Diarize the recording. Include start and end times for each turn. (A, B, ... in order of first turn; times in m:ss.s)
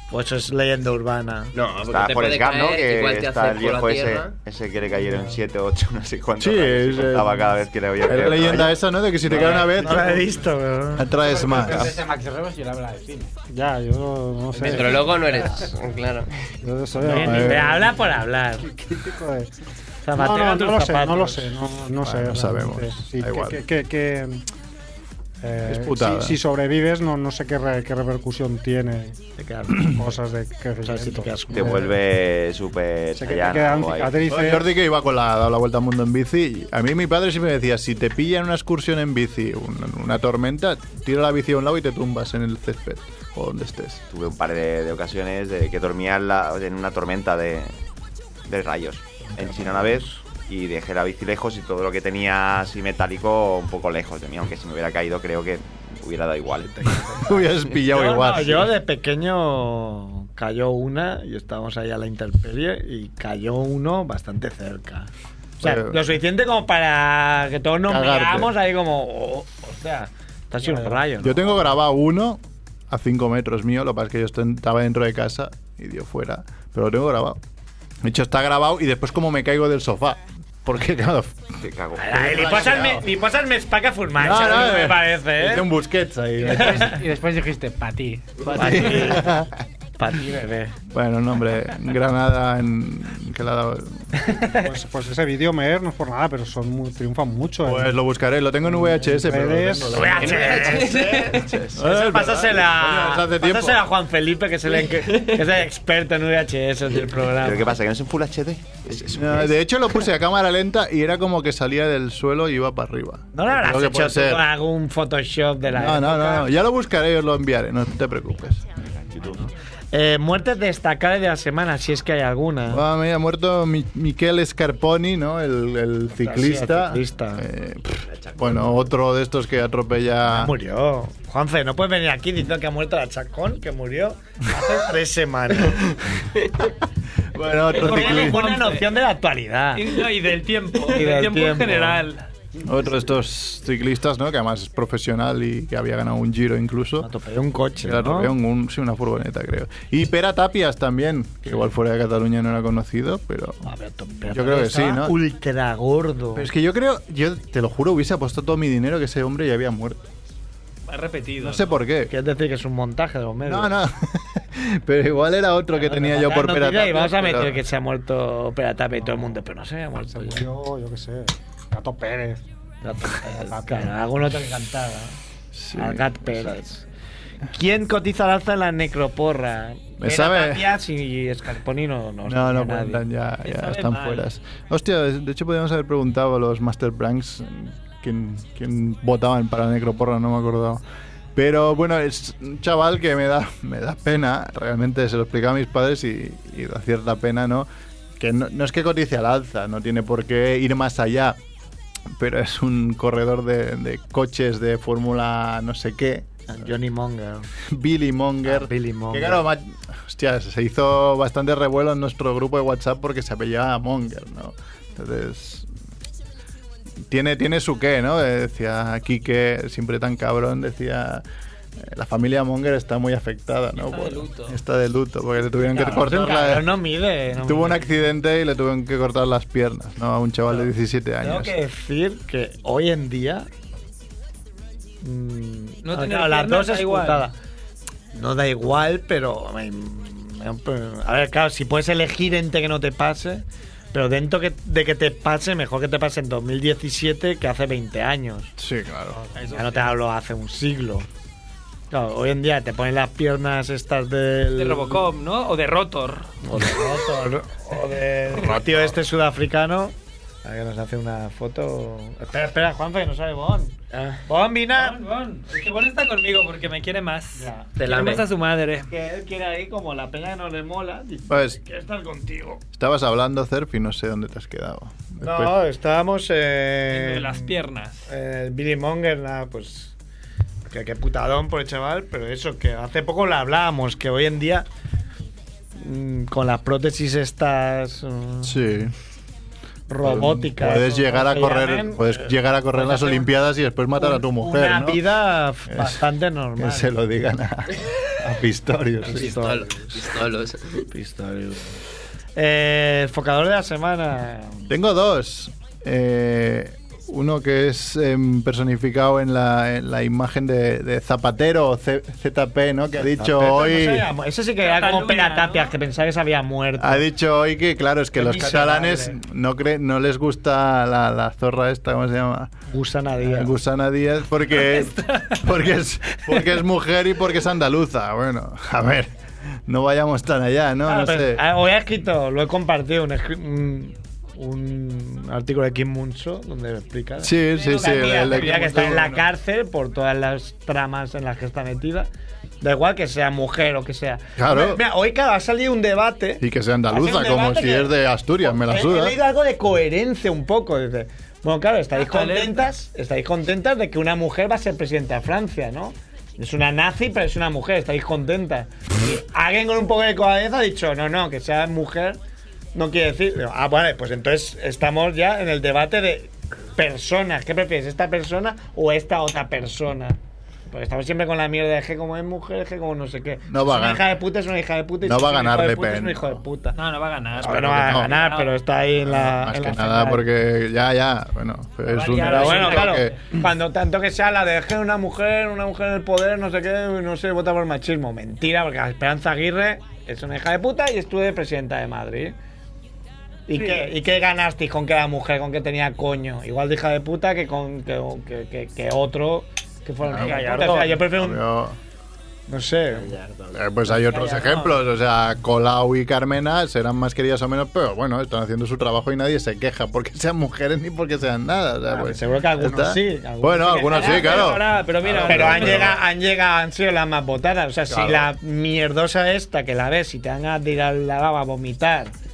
0:00.1-0:01.5 A
0:01.5-0:04.3 B
0:01.8-0:08.8 C
0:06.4-0:07.5 D
0:08.0-0:10.3 D
0:09.3-0:09.6 C
0:09.3-0:11.1 A
0:11.0-0:12.0 D
0:11.2-0:13.3 E
0:13.5-0:15.7 F
0:14.6-0:16.3 B
0:16.6-0:18.0 F
0:17.0-0:17.9 D
0:17.0-0:18.7 A
0:18.6-0:19.5 F
0:20.0-0:21.5 A
0:20.1-0:24.4 F
0:22.0-0:23.6 D
0:25.4-0:29.2 F
0:25.6-0:26.4 D
0:29.4-0:30.0 A
0:29.8-0:31.8 F
0:30.8-0:31.9 A
0:31.5-0:34.2 C
0:33.1-0:34.7 F
0:34.3-0:44.0 D
0:44.1-0:47.7 C
0:48.5-0:57.0 C
0:49.3-0:50.2 A
0:56.7-1:05.1 A
0:57.2-0:58.7 D
1:05.6-1:06.0 D
1:05.6-1:11.7 A
1:07.9-1:08.5 D
1:11.2-1:17.4 D
1:18.0-1:21.5 D
1:21.6-1:22.9 C
1:22.0-1:25.7 A
1:22.1-1:23.0 D
1:24.2-1:27.0 D
1:26.4-1:29.1 E
1:28.5-1:29.5 D
1:28.5-1:29.4 A
1:30.0-1:30.7 A
1:30.9-1:34.0 D
1:34.3-1:34.6 A
1:34.5-1:38.0 F
1:37.6-1:43.8 D
1:38.6-1:40.2 F
1:39.9-1:47.8 A
1:40.2-1:41.7 B
1:44.8-1:45.4 B
1:47.4-1:49.6 C
1:49.1-1:54.4 D
1:53.3-1:56.5 A
1:55.7-1:58.6 D
1:59.1-1:59.4 C
1:59.9-2:02.8 A
2:02.7-2:10.5 D
2:06.2-2:07.4 A
2:08.0-2:08.9 B
2:10.3-2:15.8 A
2:17.3-2:18.4 D
2:17.7-2:20.0 A
2:17.7-2:18.9 G
2:19.7-2:22.3 G
2:20.8-2:22.0 A
2:22.6-2:27.1 D
2:27.0-2:28.3 A
2:27.8-2:33.6 D
2:33.6-2:36.5 A
2:34.3-2:35.1 D
2:36.4-2:40.0 D
2:40.9-2:41.8 G
2:41.4-2:42.1 D
2:42.1-2:43.7 A
2:43.4-2:47.6 D
2:45.8-2:50.5 A
2:50.1-2:52.4 F
2:52.8-2:55.2 A
2:53.3-2:53.9 F
2:55.5-2:56.5 D
2:55.8-2:56.8 A
2:57.5-3:03.0 A
3:00.0-3:00.7 D
3:02.3-3:10.8 D
3:03.4-3:04.3 G
3:11.4-3:17.7 D
3:18.2-3:21.4 D
3:22.1-3:26.4 D
3:26.5-3:27.5 A
3:27.7-3:35.7 D
3:28.4-3:29.4 A
3:37.1-3:41.2 D
3:41.8-3:46.7 D
3:43.8-3:44.6 G
3:45.6-3:47.8 A
3:47.4-3:51.5 D
3:51.2-3:53.5 A
3:55.0-3:57.3 A
3:55.8-3:57.3 G
3:58.1-4:08.5 A
4:08.6-4:09.2 D
4:09.3-4:09.9 G
4:09.5-4:11.1 A
4:11.9-4:15.1 A
4:14.6-4:16.3 G
4:16.4-4:25.0 A
4:18.4-4:18.9 D
4:23.9-4:24.2 B
4:24.7-4:28.9 G
4:27.4-4:27.8 A
4:27.8-4:28.2 B
4:28.9-4:32.6 A
4:31.3-4:31.6 D
4:32.7-4:35.5 D
4:35.2-4:40.0 A
4:36.9-4:38.1 G
4:40.7-4:44.7 A
4:45.8-4:48.6 A
4:48.4-4:48.9 D
4:49.9-4:53.3 A
4:50.0-4:55.0 D
4:54.0-4:56.9 A
4:55.7-4:56.0 D
4:56.6-4:59.4 D
4:59.0-5:00.0 A
4:59.1-5:00.8 B
5:00.9-5:01.8 A
5:02.4-5:04.7 A
5:04.7-5:14.1 D
5:13.0-5:17.0 A
5:14.6-5:15.8 G
5:16.8-5:22.5 D
5:18.2-5:19.2 A
5:22.7-5:23.5 A
5:23.2-5:29.1 D
5:24.6-5:25.4 G
5:29.7-5:31.4 D
5:30.8-5:42.1 A
5:37.2-5:39.2 D
5:37.5-5:39.0 G
5:42.6-6:02.2 A
5:44.4-5:44.8 D
5:46.4-5:49.2 D
5:52.0-5:52.6 G
6:02.7-6:10.2 A
6:10.7-6:16.8 A
6:13.5-6:14.0 D
6:15.0-6:16.4 D
6:16.7-6:18.5 G
6:17.4-6:18.2 D
6:17.4-6:20.2 A
6:19.0-6:23.2 D
6:21.9-6:23.2 G
6:22.2-6:32.4 A
6:33.5-6:41.4 A
6:33.5-6:33.9 G
6:40.1-6:41.8 D
6:40.2-6:41.0 G
6:42.5-6:43.1 A
6:42.9-6:43.7 B
6:43.5-6:56.0 D
6:43.9-6:44.7 A
6:51.9-6:54.6 A
6:53.9-6:56.0 G
6:55.2-7:02.1 A
6:57.9-6:58.3 D